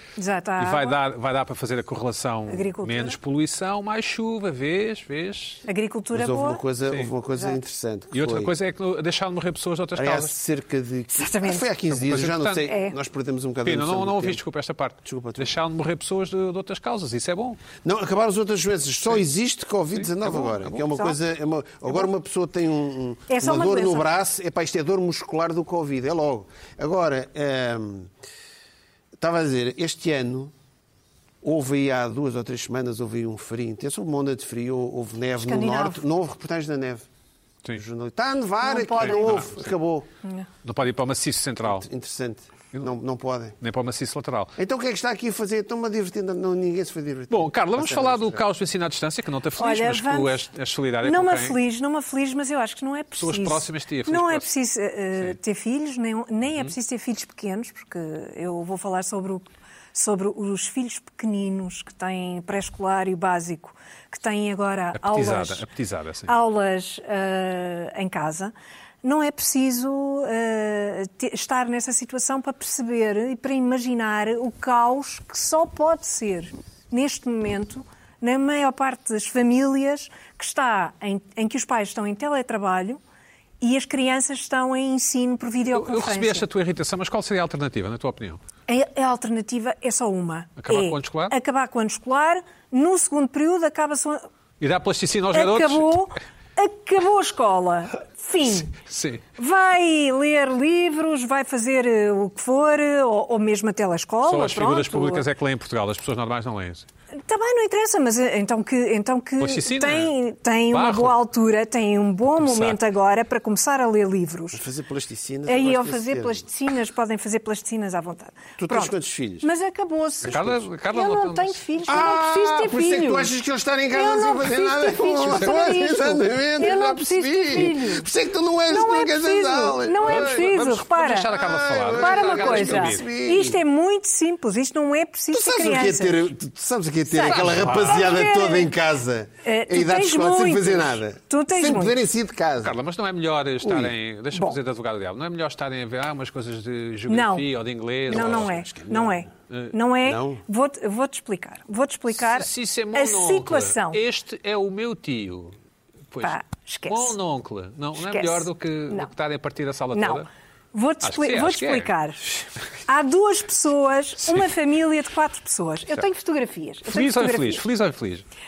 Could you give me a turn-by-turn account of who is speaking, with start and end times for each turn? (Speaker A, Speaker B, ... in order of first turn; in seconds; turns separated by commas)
Speaker A: 0.2-1.0, Speaker B: 0.6-5.7, Speaker A: 2.5-3.2, Speaker A: 5.7-6.6, Speaker C: 6.1-8.5, Speaker B: 8.1-10.3, Speaker C: 10.0-14.4, Speaker A: 11.1-11.7, Speaker B: 11.9-12.7, Speaker A: 12.7-12.9, Speaker B: 13.6-17.6, Speaker C: 15.0-15.5, Speaker C: 17.8-28.1, Speaker B: 20.0-20.8, Speaker A: 23.3-24.1, Speaker C: 29.2-30.5, Speaker C: 31.4-37.0, Speaker A: 35.4-36.0, Speaker C: 37.8-40.1, Speaker A: 38.6-39.5, Speaker B: 39.0-39.5, Speaker B: 40.6-41.9, Speaker C: 41.6-43.6, Speaker B: 43.6-44.5, Speaker C: 44.6-48.4, Speaker B: 47.3-51.6, Speaker A: 49.6-50.4, Speaker A: 51.0-65.7, Speaker B: 53.2-54.5, Speaker B: 56.5-56.7, Speaker B: 64.9-66.3, Speaker A: 66.3-83.0, Speaker A: 83.6-86.5, Speaker B: 85.7-88.4, Speaker A: 88.7-94.3, Speaker B: 90.6-91.4, Speaker B: 94.6-96.0, Speaker A: 95.3-98.7, Speaker B: 98.7-99.2, Speaker A: 99.4-105.3, Speaker B: 104.2-106.9, Speaker A: 107.2-114.6, Speaker B: 109.4-110.1, Speaker B: 110.7-111.2, Speaker B: 112.4-112.8, Speaker C: 114.5-116.5, Speaker A: 115.5-123.3, Speaker C: 118.6-119.5, Speaker B: 120.2-121.6, Speaker C: 120.2-120.6, Speaker C: 121.8-130.5, Speaker A: 123.9-128.1, Speaker A: 128.7-131.3, Speaker B: 130.0-133.1, Speaker C: 131.3-133.6, Speaker A: 132.0-136.3, Speaker C: 135.3-142.7, Speaker A: 137.1-138.7, Speaker B: 137.2-138.2, Speaker A: 139.4-141.9, Speaker B: 142.6-148.5, Speaker C: 143.6-143.9, Speaker A: 147.1-147.5, Speaker C: 148.1-149.3, Speaker A: 148.1-154.0, Speaker B: 149.5-149.7, Speaker C: 150.0-150.4, Speaker B: 152.1-155.6, Speaker B: 156.1-160.3, Speaker A: 156.2-157.2, Speaker A: 158.0-159.1, Speaker A: 159.9-162.3, Speaker B: 161.0-161.9, Speaker A: 162.9-167.6, Speaker B: 164.2-164.5, Speaker B: 166.9-168.2